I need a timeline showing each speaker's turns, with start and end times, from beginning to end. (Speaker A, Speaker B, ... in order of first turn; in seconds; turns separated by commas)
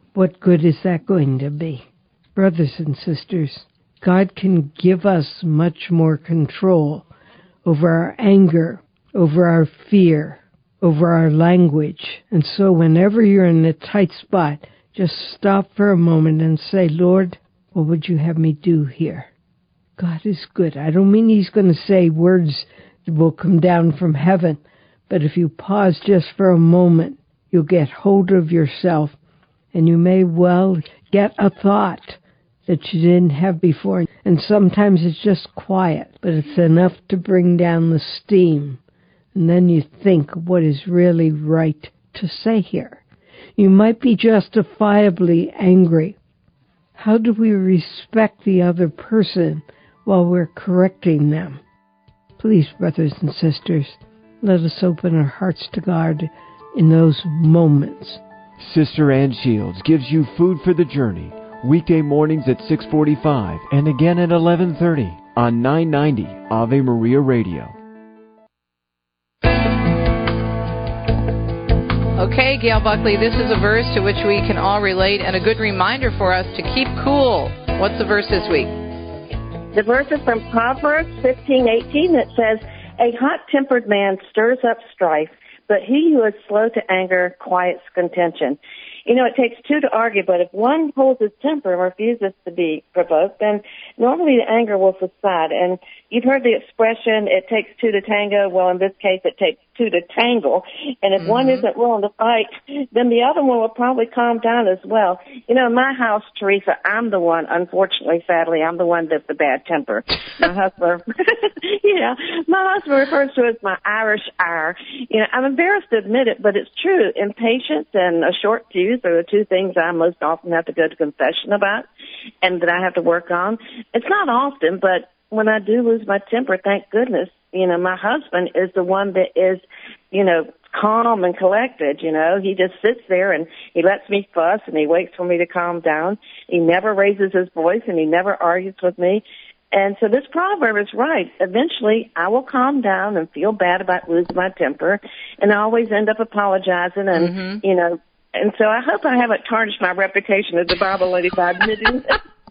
Speaker A: 0.1-7.1, Speaker A: 7.6-19.3, Speaker A: 20.0-29.2, Speaker A: 29.7-38.8, Speaker A: 39.3-43.0, Speaker A: 43.6-46.2, Speaker A: 47.0-51.6, Speaker A: 52.4-58.2, Speaker B: 58.6-67.7, Speaker C: 72.2-78.7, Speaker D: 79.7-121.8, Speaker C: 101.2-101.6, Speaker D: 122.4-152.2, Speaker C: 147.1-147.6